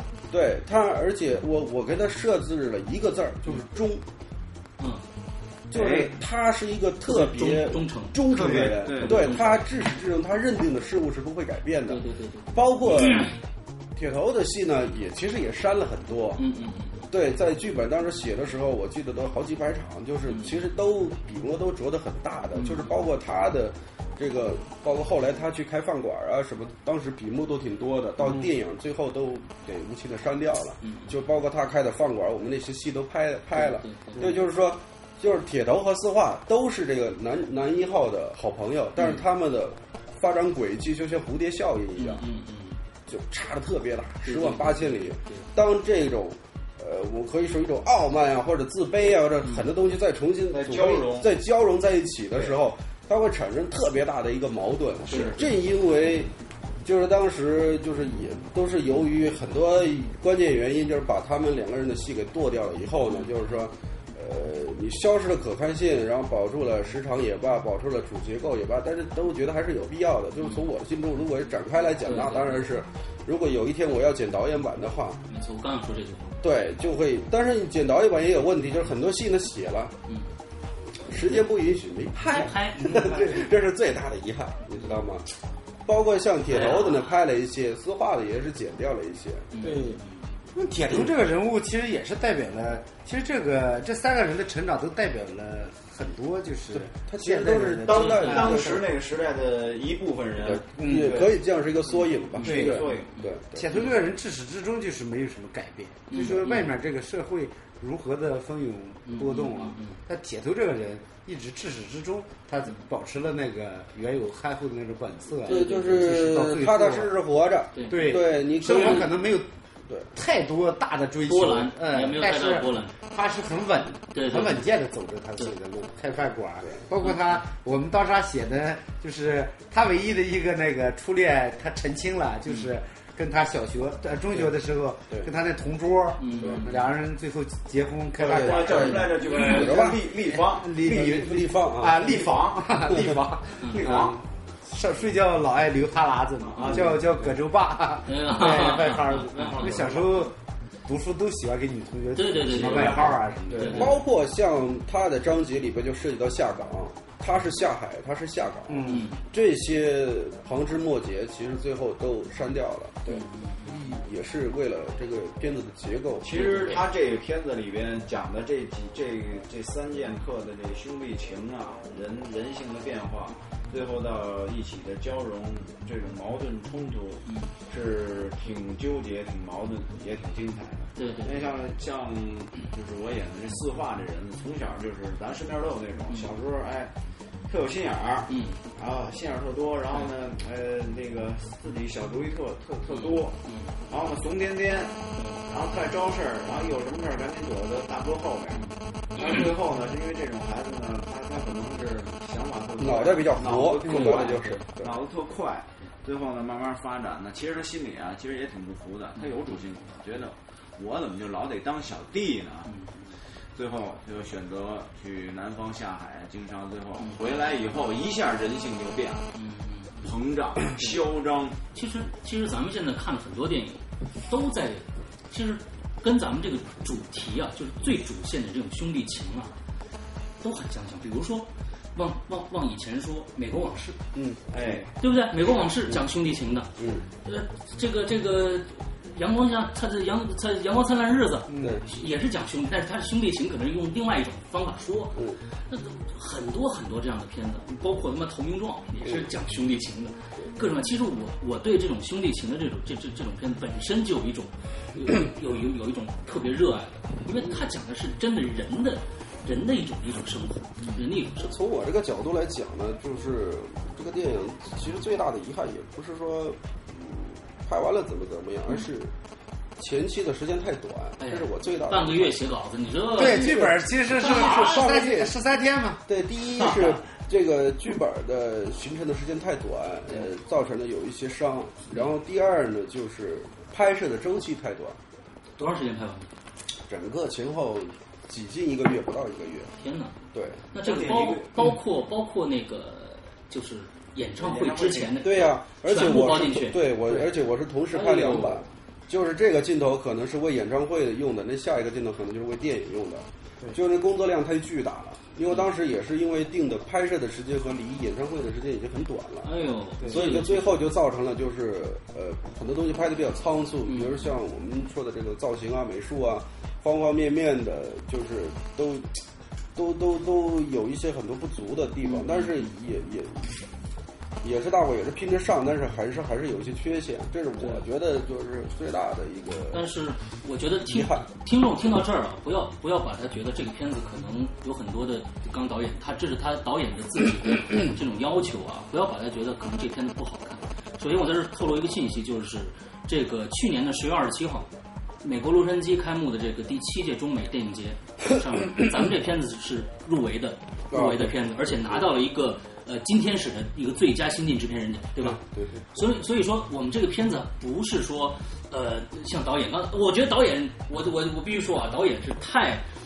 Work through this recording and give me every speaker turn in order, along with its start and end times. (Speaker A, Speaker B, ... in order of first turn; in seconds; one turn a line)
Speaker A: 0.3-4.0
Speaker A: 5.7-13.3
Speaker B: 5.7-6.1
Speaker C: 7.1-9.6
Speaker B: 8.3-9.4
Speaker C: 11.9-13.3
Speaker A: 13.9-16.4
Speaker C: 16.4-17.1
Speaker A: 17.1-42.2
Speaker C: 20.3-20.6
Speaker C: 22.5-23.0
Speaker C: 30.8-31.1
Speaker C: 33.5-34.4
Speaker C: 39.0-39.2
Speaker C: 42.0-42.8
Speaker A: 43.1-56.3
Speaker C: 44.2-45.4
Speaker B: 50.5-51.3
Speaker B: 55.1-55.4
Speaker A: 56.8-75.2
Speaker C: 70.4-70.7
Speaker C: 72.0-72.7
Speaker C: 75.3-76.4
Speaker A: 76.4-79.9
Speaker A: 81.0-85.3
Speaker C: 82.2-83.5
Speaker A: 85.8-89.6
Speaker C: 86.5-87.2
Speaker C: 89.5-90.2
Speaker D: 89.6-90.0
Speaker D: 90.5-98.9
Speaker A: 96.7-98.8
Speaker B: 97.8-101.3
Speaker A: 100.4-103.7
Speaker D: 100.7-101.2
Speaker B: 102.3-103.1
Speaker D: 102.6-102.8
Speaker C: 103.2-104.0
Speaker D: 103.5-117.1
Speaker C: 106.1-106.7
Speaker C: 109.0-110.0
Speaker A: 115.4-119.2
Speaker C: 117.7-119.0
Speaker D: 117.9-119.5
Speaker D: 120.1-139.7
Speaker C: 121.2-122.9
Speaker C: 124.1-124.6
Speaker C: 136.2-136.8
Speaker A: 136.4-136.7
Speaker B: 138.2-141.2
Speaker A: 138.2-140.2
Speaker C: 139.3-139.6
Speaker D: 140.3-153.9
Speaker A: 140.8-142.1
Speaker B: 142.0-142.9
Speaker A: 142.9-143.2
Speaker C: 143.6-143.9
Speaker B: 143.7-144.2
Speaker B: 146.5-147.2
Speaker A: 146.7-147.0
Speaker C: 148.1-149.7
Speaker B: 149.3-150.3
Speaker C: 152.1-153.9
Speaker B: 152.5-153.9
Speaker A: 153.7-166.7
Speaker D: 158.7-159.1
Speaker C: 158.8-159.2
Speaker C: 163.1-163.7
Speaker B: 166.2-186.9
Speaker C: 166.3-166.8
Speaker C: 180.9-181.4
Speaker B: 187.5-193.3
Speaker C: 188.3-188.6
Speaker C: 192.9-193.7
Speaker B: 193.9-194.9
Speaker C: 195.2-195.4
Speaker B: 195.5-212.7
Speaker A: 202.8-205.0
Speaker B: 213.5-219.3
Speaker C: 219.3-220.1
Speaker B: 220.0-221.6
Speaker C: 221.7-229.5
Speaker C: 230.4-234.0
Speaker A: 234.1-234.6
Speaker B: 234.5-234.9
Speaker C: 235.0-236.7
Speaker A: 236.8-237.0
Speaker C: 237.2-261.5
Speaker D: 241.5-241.8
Speaker A: 241.6-241.9
Speaker A: 245.1-245.4
Speaker A: 249.0-249.3
Speaker A: 261.4-269.1
Speaker A: 269.8-272.4
Speaker C: 271.2-274.9
Speaker A: 273.1-275.4
Speaker D: 273.1-276.0
Speaker A: 276.1-285.0
Speaker C: 285.6-286.3
Speaker A: 286.9-289.7
Speaker C: 289.8-290.1
Speaker A: 290.3-290.6
Speaker C: 290.7-296.9
Speaker B: 290.8-291.5
Speaker B: 294.4-295.2
Speaker A: 295.2-319.2
Speaker B: 297.9-298.6
Speaker C: 309.4-310.9
Speaker C: 313.9-314.2
Speaker A: 319.7-323.6
Speaker C: 322.0-322.6
Speaker A: 324.4-329.9
Speaker C: 329.7-344.7
Speaker A: 330.9-331.2
Speaker C: 345.2-355.4
Speaker A: 350.9-352.1
Speaker A: 355.2-355.8
Speaker C: 355.9-362.9